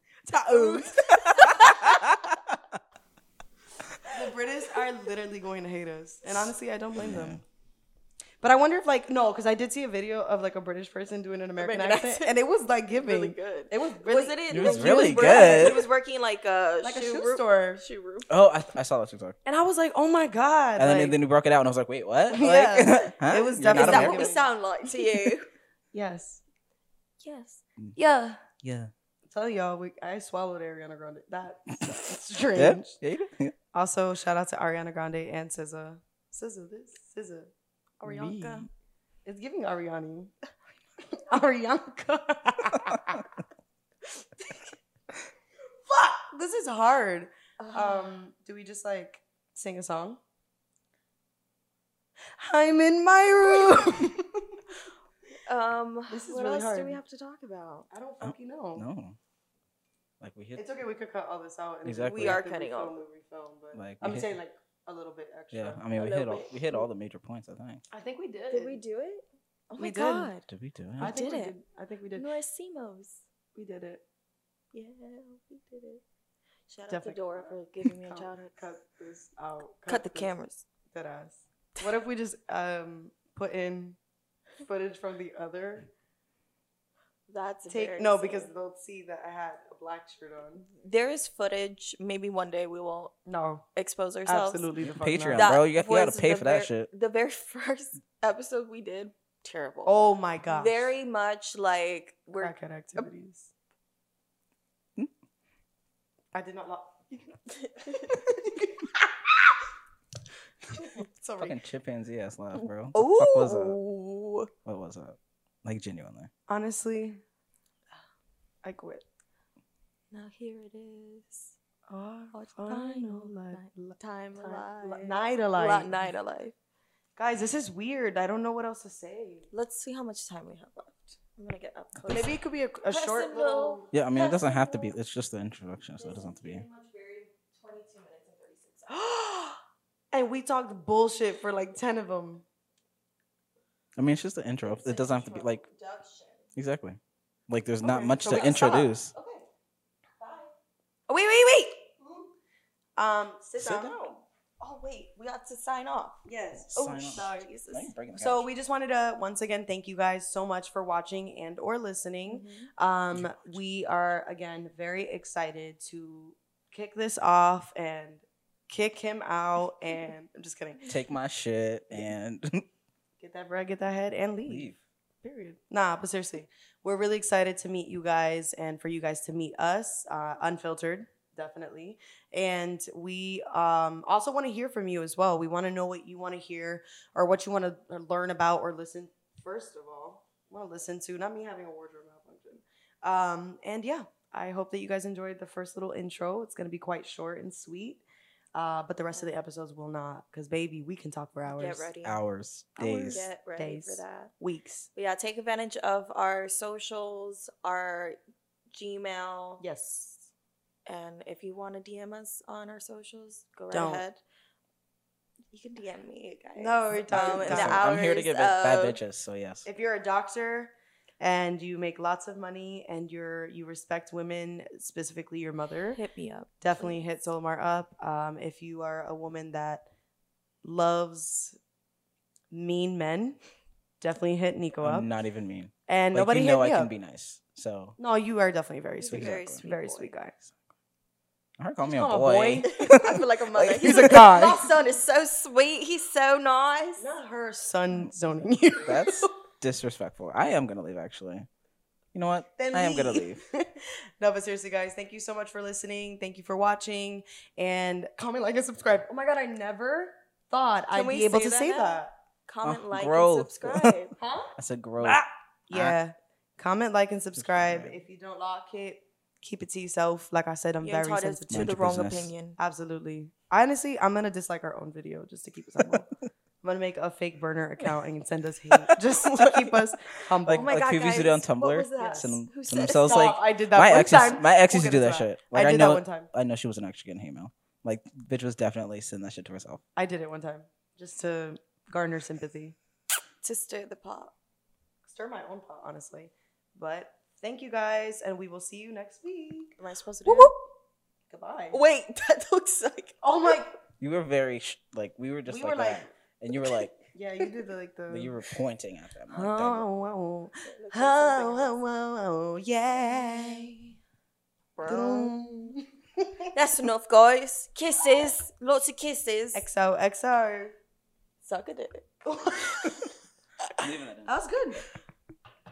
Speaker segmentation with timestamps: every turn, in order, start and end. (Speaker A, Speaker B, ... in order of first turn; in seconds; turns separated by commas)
Speaker A: 0.2-2.3, Speaker B: 0.7-2.5, Speaker A: 4.0-7.4, Speaker B: 7.0-7.4, Speaker A: 8.4-15.8, Speaker C: 11.6-12.4, Speaker C: 12.9-18.3, Speaker B: 14.5-15.8, Speaker A: 16.8-17.8, Speaker B: 18.3-19.4, Speaker A: 19.4-21.2, Speaker B: 20.8-24.3, Speaker A: 22.3-24.5, Speaker C: 23.6-25.5, Speaker A: 25.9-26.4, Speaker C: 27.2-27.6, Speaker A: 27.9-28.4, Speaker B: 28.6-28.9, Speaker A: 29.3-33.0, Speaker B: 32.5-33.5, Speaker A: 33.7-38.6, Speaker B: 38.0-38.7, Speaker A: 39.2-40.3, Speaker A: 41.1-43.3, Speaker C: 44.4-44.7, Speaker A: 45.9-50.2, Speaker C: 47.6-48.2, Speaker A: 52.4-54.5, Speaker C: 53.5-53.8, Speaker C: 55.5-57.9, Speaker A: 56.1-57.0, Speaker A: 57.9-58.9, Speaker B: 58.2-59.2, Speaker B: 60.2-60.6, Speaker A: 60.5-65.8, Speaker B: 61.8-62.4, Speaker C: 62.0-63.0, Speaker B: 63.7-64.3, Speaker B: 65.5-67.8, Speaker C: 66.0-66.9, Speaker A: 67.9-68.8, Speaker C: 68.5-70.5, Speaker A: 69.8-70.3, Speaker B: 70.5-71.1, Speaker C: 71.0-71.5, Speaker A: 71.0-72.3, Speaker C: 72.2-73.2, Speaker A: 73.5-74.0, Speaker C: 74.7-76.0, Speaker C: 76.7-78.7, Speaker A: 76.9-80.3, Speaker C: 79.9-80.7, Speaker A: 80.9-84.0, Speaker A: 84.6-85.9, Speaker C: 87.3-88.5, Speaker A: 87.7-90.7, Speaker C: 90.8-93.2, Speaker A: 93.2-93.7, Speaker C: 93.7-94.7, Speaker A: 94.2-95.5, Speaker B: 94.8-96.9, Speaker C: 95.3-103.1, Speaker A: 99.8-100.9, Speaker A: 102.4-103.5, Speaker A: 106.3-107.2, Speaker C: 107.6-108.2, Speaker A: 107.8-109.5, Speaker A: 110.7-111.6, Speaker B: 111.4-113.8, Speaker C: 112.6-114.5, Speaker B: 114.6-116.3, Speaker A: 116.5-117.2, Speaker A: 118.6-119.0, Speaker C: 120.1-121.5, Speaker A: 121.9-126.1, Speaker C: 122.3-126.5, Speaker A: 127.2-129.5, Speaker C: 129.5-134.9, Speaker A: 132.0-133.9, Speaker B: 133.9-136.7, Speaker C: 136.0-139.6, Speaker A: 140.1-142.4, Speaker B: 143.9-145.6, Speaker C: 144.6-146.5, Speaker B: 146.6-149.1, Speaker A: 147.8-148.9, Speaker C: 148.2-149.4, Speaker C: 150.2-150.5, Speaker A: 151.1-151.9, Speaker C: 152.0-152.3, Speaker A: 153.0-154.0, Speaker C: 153.6-156.2, Speaker A: 156.2-157.5, Speaker B: 156.7-158.5, Speaker C: 156.7-157.9, Speaker A: 158.2-170.8, Speaker C: 162.2-162.7, Speaker B: 163.1-163.6, Speaker B: 170.9-172.6, Speaker A: 173.2-198.0, Speaker B: 174.5-174.8, Speaker A: 198.5-201.9, Speaker C: 201.6-202.2, Speaker B: 202.0-203.3, Speaker C: 202.8-204.3, Speaker A: 202.8-204.9, Speaker C: 204.9-208.2, Speaker C: 208.7-209.6, Speaker A: 209.6-210.3, Speaker C: 210.8-214.2, Speaker A: 213.7-214.0, Speaker C: 215.5-219.0, Speaker A: 216.6-217.8, Speaker B: 217.1-219.6, Speaker A: 219.6-226.0, Speaker C: 225.9-226.9, Speaker A: 226.6-229.8, Speaker A: 230.6-231.6, Speaker A: 232.5-233.4, Speaker A: 234.0-235.1, Speaker B: 234.8-237.9, Speaker A: 235.9-236.9, Speaker A: 238.0-240.3, Speaker C: 239.0-240.1, Speaker B: 239.1-239.6, Speaker B: 241.6-244.2, Speaker A: 241.8-243.0, Speaker C: 242.6-247.1, Speaker A: 243.8-244.8, Speaker A: 247.0-249.3, Speaker B: 248.8-251.5, Speaker B: 252.1-253.4, Speaker A: 252.6-262.1, Speaker C: 260.9-264.1, Speaker B: 262.6-266.0, Speaker A: 264.2-271.8, Speaker B: 267.4-267.9, Speaker C: 270.8-272.6, Speaker B: 271.5-272.3, Speaker A: 272.6-276.1, Speaker A: 276.6-280.8, Speaker B: 278.8-279.8, Speaker B: 280.4-289.8, Speaker C: 280.5-283.4, Speaker A: 282.0-282.4, Speaker A: 283.0-286.3, Speaker A: 289.9-292.8, Speaker C: 293.4-294.3, Speaker A: 295.1-299.7, Speaker C: 299.8-300.5, Speaker A: 300.2-300.6, Speaker A: 301.3-301.8, Speaker C: 301.7-303.2, Speaker A: 303.2-303.7, Speaker B: 304.0-306.9, Speaker A: 305.5-306.1, Speaker A: 307.1-308.3, Speaker B: 308.1-309.9, Speaker A: 309.3-313.7, Speaker C: 310.6-311.7, Speaker C: 312.9-313.8, Speaker C: 314.8-315.3, Speaker A: 314.8-316.5, Speaker C: 316.5-319.6, Speaker A: 319.5-320.7, Speaker C: 321.4-323.0, Speaker A: 322.2-323.1, Speaker B: 323.8-324.4, Speaker A: 324.2-324.8